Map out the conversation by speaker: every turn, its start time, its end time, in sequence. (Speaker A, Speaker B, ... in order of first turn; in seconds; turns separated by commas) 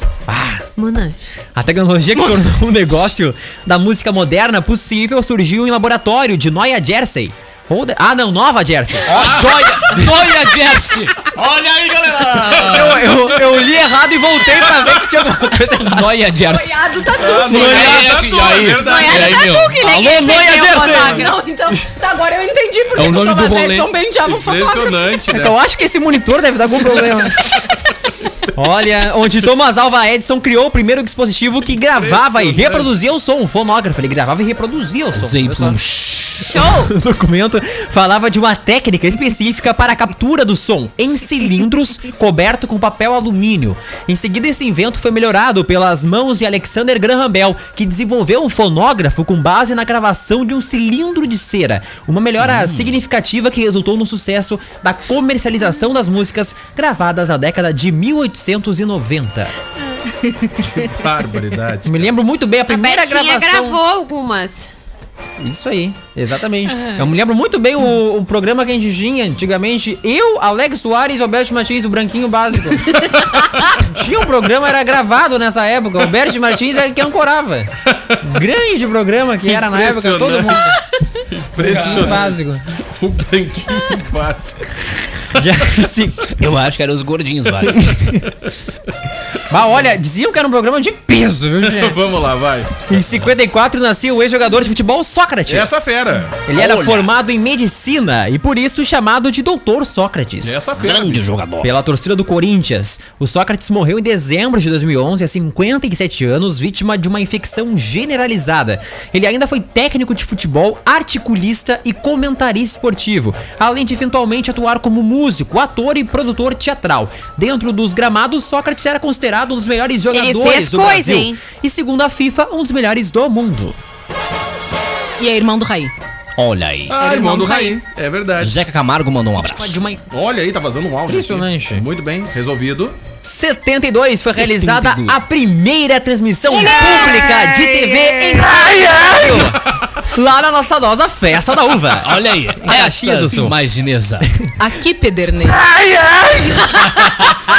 Speaker A: 0.3-0.6, Speaker B: 0.8-1.4, Speaker A: 1.6-9.2, Speaker C: 9.1-10.1, Speaker D: 9.1-13.0, Speaker C: 12.5-13.4, Speaker A: 12.6-16.2, Speaker C: 14.7-14.9, Speaker D: 15.8-16.8, Speaker E: 16.5-18.2, Speaker C: 17.2-19.6, Speaker D: 17.5-19.8, Speaker B: 18.9-21.3, Speaker E: 19.2-25.0, Speaker A: 19.8-21.3, Speaker D: 23.0-23.9, Speaker C: 24.2-25.6, Speaker A: 25.3-27.4, Speaker A: 28.6-35.8, Speaker C: 31.9-32.9, Speaker D: 35.1-36.6, Speaker B: 36.5-36.9, Speaker A: 36.6-59.5, Speaker D: 52.4-53.0, Speaker C: 60.7-62.1, Speaker A: 61.9-63.8, Speaker B: 62.7-64.7, Speaker A: 65.4-80.8, Speaker C: 77.9-78.2, Speaker C: 79.5-80.7, Speaker C: 81.3-84.8, Speaker A: 81.6-82.6, Speaker D: 81.7-82.1, Speaker A: 85.3-86.3, Speaker D: 86.3-88.0, Speaker A: 89.5-92.0, Speaker C: 91.6-93.1, Speaker A: 92.9-95.9, Speaker C: 95.5-96.4, Speaker A: 96.5-100.6, Speaker D: 96.5-97.1, Speaker C: 100.4-101.3, Speaker D: 100.8-101.7, Speaker A: 101.6-123.8, Speaker B: 120.1-121.4, Speaker E: 125.2-125.9, Speaker D: 126.4-126.9, Speaker C: 126.9-128.6, Speaker E: 127.0-127.8, Speaker D: 128.4-129.8, Speaker A: 129.4-130.0, Speaker C: 130.1-133.0, Speaker A: 131.1-131.8, Speaker A: 133.2-143.6, Speaker D: 134.3-135.2, Speaker D: 136.7-139.2, Speaker D: 142.0-144.3, Speaker E: 144.6-145.6, Speaker D: 147.0-147.4